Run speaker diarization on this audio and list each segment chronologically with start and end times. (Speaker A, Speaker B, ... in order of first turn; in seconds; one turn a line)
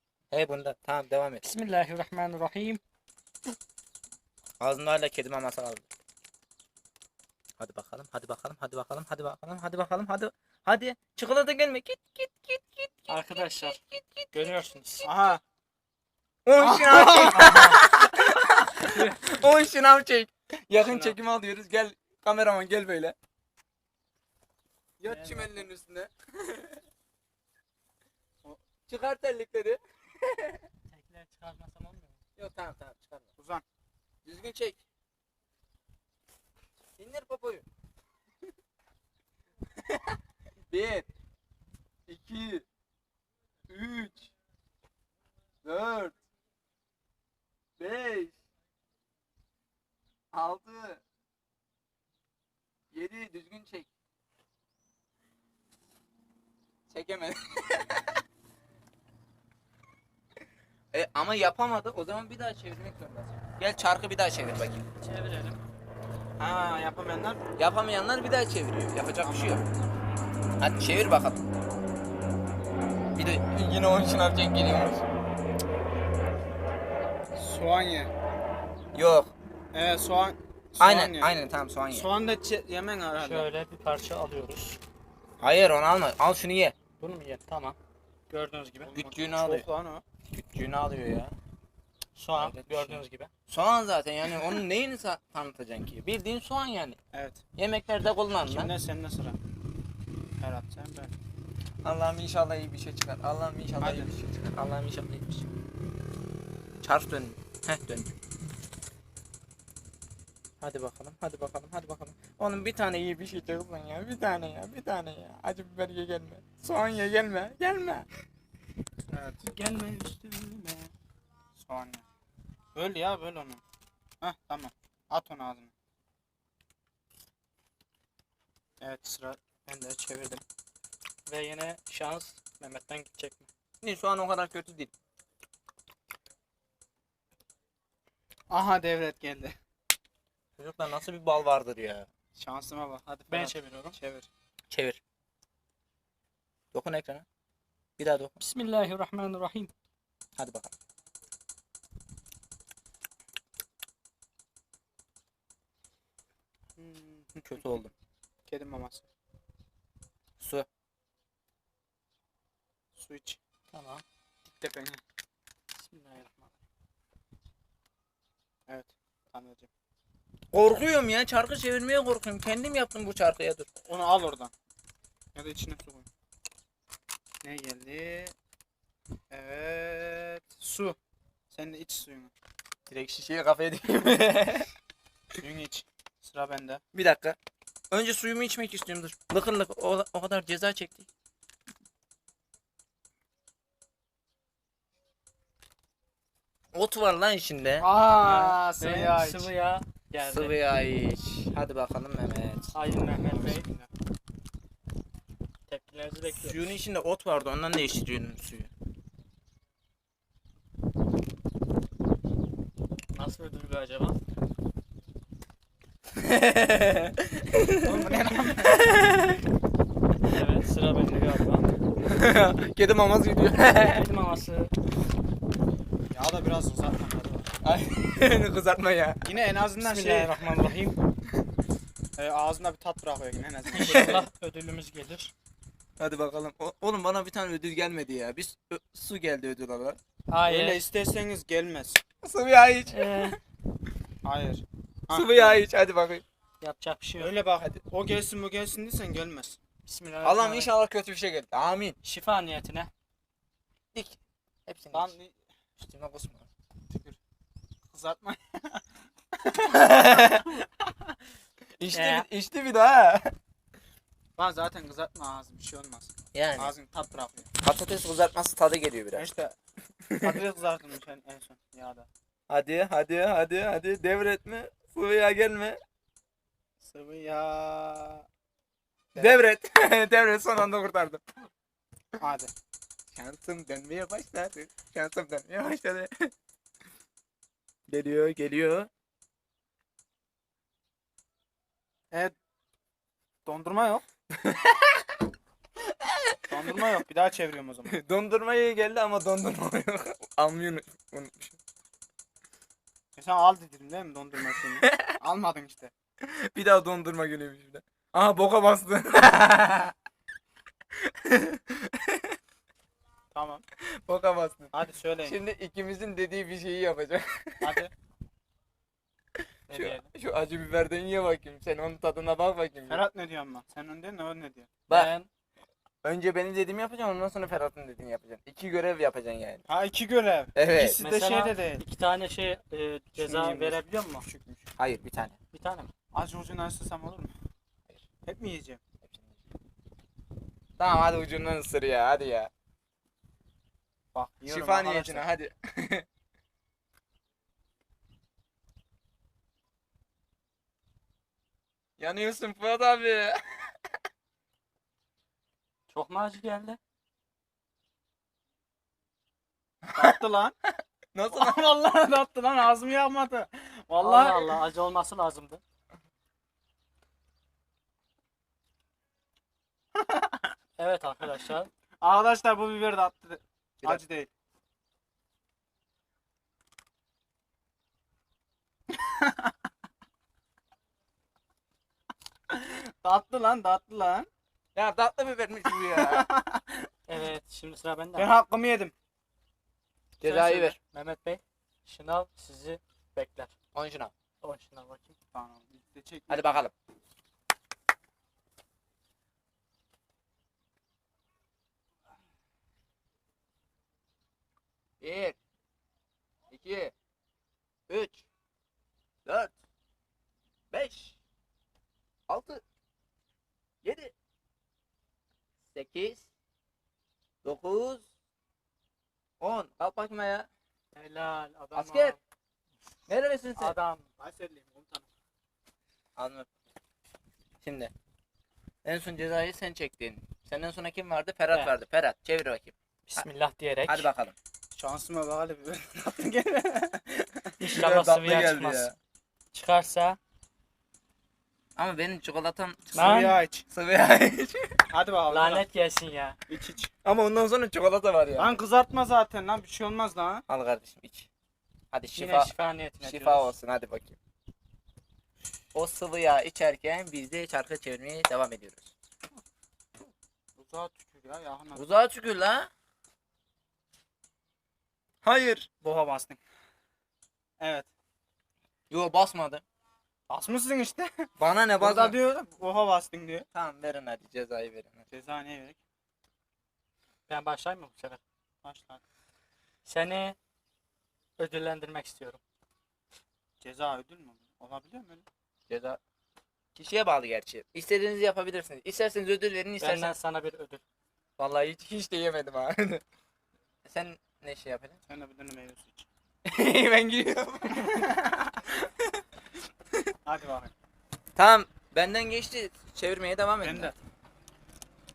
Speaker A: 0.3-1.4
Speaker B: 1.4-2.8
Speaker A: 4.6-5.9
Speaker A: 7.6-14.3
Speaker B: 13.1-13.8
Speaker B: 14.3-15.1
Speaker C: 15.0-15.4
Speaker A: 16.4-23.1
Speaker C: 16.6-17.8
Speaker B: 18.9-19.3
Speaker A: 25.0-26.8
Speaker B: 25.0-25.7
Speaker A: 28.9-30.6
Speaker B: 30.9-32.2
Speaker A: 32.4-33.3
Speaker C: 33.4-33.6
Speaker A: 34.2-34.8
Speaker A: 37.0-37.7
Speaker A: 39.9-40.1
Speaker A: 40.7-41.1
Speaker A: 42.1-42.6
Speaker A: 43.7-44.3
Speaker A: 45.6-46.2
Speaker A: 47.8-48.4
Speaker A: 50.3-51.0
Speaker A: 52.9-53.9
Speaker A: 56.9-58.2
Speaker A: 60.9-64.8
Speaker B: 64.9-65.6
Speaker C: 66.4-67.4
Speaker A: 67.6-69.6
Speaker C: 69.2-69.7
Speaker A: 70.6-71.4
Speaker A: 73.2-75.0
Speaker C: 77.3-78.1
Speaker A: 78.9-79.3
Speaker C: 79.7-81.3
Speaker A: 80.8-82.1
Speaker C: 81.9-83.5
Speaker B: 83.2-84.8
Speaker A: 85.4-86.8
Speaker B: 87.0-87.8
Speaker B: 88.3-88.9
Speaker C: 88.8-90.0
Speaker A: 88.9-89.7
Speaker A: 90.3-91.3
Speaker B: 92.2-93.3
Speaker A: 92.3-97.0
Speaker C: 97.1-97.4
Speaker A: 97.6-98.7
Speaker C: 98.5-99.4
Speaker C: 100.4-101.1
Speaker A: 101.8-105.5
Speaker C: 103.8-104.1
Speaker A: 106.8-108.1
Speaker A: 110.6-118.1
Speaker C: 119.1-119.5
Speaker B: 119.4-120.9
Speaker C: 121.6-122.0
Speaker C: 122.8-123.6
Speaker C: 124.2-125.7
Speaker C: 128.8-130.4
Speaker B: 131.3-133.5
Speaker A: 133.8-134.9
Speaker C: 138.5-139.6
Speaker A: 140.6-142.1
Speaker C: 142.4-144.3
Speaker B: 143.3-144.0
Speaker A: 144.7-145.0
Speaker A: 146.7-147.2
Speaker A: 148.0-148.4
Speaker B: 148.4-149.7
Speaker A: 150.4-150.7
Speaker C: 156.8-157.8
Speaker A: 157.4-157.9
Speaker C: 158.5-159.1
Speaker A: 160.4-160.7
Speaker C: 163.0-163.4
Speaker B: 163.7-164.0
Speaker C: 164.6-165.0
Speaker B: 165.8-166.5
Speaker C: 168.7-169.7
Speaker A: 170.5-173.7
Speaker C: 173.9-174.5
Speaker C: 175.3-176.1
Speaker C: 177.4-178.3
Speaker C: 179.3-181.0
Speaker C: 181.5-182.3
Speaker A: 182.9-184.7
Speaker C: 185.4-186.8
Speaker A: 186.9-187.4
Speaker A: 187.9-191.1
Speaker A: 196.7-197.9
Speaker C: 197.8-199.5
Speaker B: 198.2-200.6
Speaker A: 200.2-202.7
Speaker B: 202.7-203.7
Speaker C: 203.1-203.9
Speaker B: 205.7-206.8
Speaker A: 206.3-208.7
Speaker B: 213.1-214.2
Speaker A: 216.2-219.4
Speaker C: 217.8-218.8
Speaker B: 220.2-221.7
Speaker A: 222.0-224.0
Speaker B: 223.6-224.7
Speaker C: 226.1-227.5
Speaker A: 227.6-229.2
Speaker C: 229.2-230.7
Speaker B: 229.8-231.0
Speaker C: 232.2-234.3
Speaker B: 233.8-235.3
Speaker A: 233.8-234.2
Speaker A: 236.0-240.0
Speaker B: 240.3-240.9
Speaker C: 240.5-242.0
Speaker A: 242.2-243.3
Speaker B: 242.9-243.4
Speaker C: 244.2-245.6
Speaker A: 245.1-246.2
Speaker B: 246.6-247.3
Speaker C: 247.2-249.6
Speaker B: 249.9-250.7
Speaker A: 250.2-252.0
Speaker B: 252.0-252.9
Speaker A: 253.9-255.2
Speaker C: 254.9-255.4
Speaker A: 255.8-256.5
Speaker C: 256.9-257.2
Speaker C: 257.9-258.8
Speaker C: 259.4-261.0
Speaker A: 259.7-260.5
Speaker A: 261.8-263.3
Speaker B: 261.9-262.3
Speaker C: 264.4-267.5
Speaker A: 266.3-266.7
Speaker A: 267.6-269.3
Speaker C: 269.1-269.6
Speaker A: 270.1-270.3
Speaker C: 270.2-272.1
Speaker A: 272.5-275.8
Speaker C: 276.8-278.3
Speaker A: 279.1-281.2
Speaker C: 279.2-279.4
Speaker C: 282.2-282.5
Speaker A: 283.1-286.3
Speaker A: 287.9-288.9
Speaker C: 293.5-294.1
Speaker A: 294.4-295.0
Speaker A: 295.9-296.4
Speaker C: 296.5-298.0
Speaker A: 297.9-301.6
Speaker C: 303.2-305.9
Speaker A: 304.8-305.2
Speaker A: 306.2-309.9
Speaker A: 311.0-312.4
Speaker C: 313.3-313.6
Speaker A: 314.0-314.7
Speaker C: 314.7-315.4
Speaker A: 315.2-317.8
Speaker C: 317.6-317.9
Speaker B: 319.7-320.1
Speaker A: 319.7-323.0
Speaker C: 322.9-324.7
Speaker A: 324.9-325.1
Speaker B: 324.9-325.3
Speaker A: 326.0-329.6
Speaker C: 329.7-331.8
Speaker A: 330.6-331.0
Speaker B: 330.9-334.2
Speaker C: 333.2-334.7
Speaker A: 334.8-335.4
Speaker B: 335.5-335.9
Speaker C: 336.1-337.4
Speaker C: 338.2-338.8
Speaker A: 339.0-339.4
Speaker A: 340.8-342.5
Speaker C: 344.1-345.3
Speaker A: 344.5-346.1
Speaker A: 352.0-353.7
Speaker B: 355.9-356.8
Speaker A: 359.9-360.1
Speaker C: 359.9-360.5
Speaker A: 361.1-361.6
Speaker C: 361.3-364.6
Speaker B: 364.0-365.6
Speaker C: 370.0-370.5
Speaker B: 370.8-371.7
Speaker C: 372.0-374.3
Speaker C: 379.0-379.5
Speaker C: 382.5-384.3
Speaker A: 384.8-386.3
Speaker C: 385.9-386.9
Speaker B: 387.1-388.3
Speaker C: 388.2-388.9
Speaker A: 390.2-390.8
Speaker B: 390.2-393.5
Speaker A: 393.7-394.1
Speaker B: 394.4-395.1
Speaker C: 395.3-396.4
Speaker A: 396.3-396.7
Speaker A: 405.0-405.4
Speaker A: 406.5-406.9
Speaker A: 407.9-408.3
Speaker A: 409.2-409.6
Speaker A: 410.7-411.2
Speaker A: 412.3-412.6
Speaker A: 413.8-414.1
Speaker A: 415.7-416.3
Speaker A: 417.4-418.1
Speaker A: 419.4-420.5
Speaker B: 420.9-422.2
Speaker A: 421.8-422.2
Speaker A: 423.1-423.8
Speaker B: 423.6-424.1
Speaker C: 424.2-425.1
Speaker A: 426.2-426.5
Speaker A: 427.6-427.9
Speaker A: 428.8-433.2
Speaker B: 433.1-434.1
Speaker A: 433.9-434.4
Speaker C: 434.7-437.5
Speaker B: 437.6-438.9
Speaker A: 437.6-439.0
Speaker B: 439.5-440.2
Speaker A: 441.8-444.8
Speaker B: 442.9-443.4
Speaker C: 442.9-443.7
Speaker C: 444.9-445.7
Speaker B: 445.3-446.4
Speaker C: 446.5-446.9
Speaker A: 447.0-448.6
Speaker C: 448.4-450.4
Speaker A: 450.5-451.3
Speaker A: 451.9-454.2
Speaker B: 452.1-453.5
Speaker A: 455.7-458.9
Speaker C: 460.6-461.8
Speaker A: 461.8-462.7
Speaker A: 465.2-465.7
Speaker C: 465.8-466.4
Speaker C: 467.6-467.9
Speaker A: 468.9-469.6
Speaker C: 470.3-473.5
Speaker A: 471.4-472.2
Speaker A: 473.5-475.1
Speaker C: 475.1-475.8
Speaker B: 477.3-478.2
Speaker C: 478.6-479.0
Speaker B: 479.9-480.4
Speaker B: 481.4-482.4
Speaker C: 483.6-485.3
Speaker A: 485.7-486.0
Speaker A: 486.8-490.1
Speaker B: 489.8-490.8
Speaker A: 491.4-493.0
Speaker A: 493.9-495.0
Speaker C: 495.1-496.1
Speaker A: 496.5-498.9
Speaker C: 500.2-500.7
Speaker A: 501.4-503.9
Speaker C: 503.6-504.0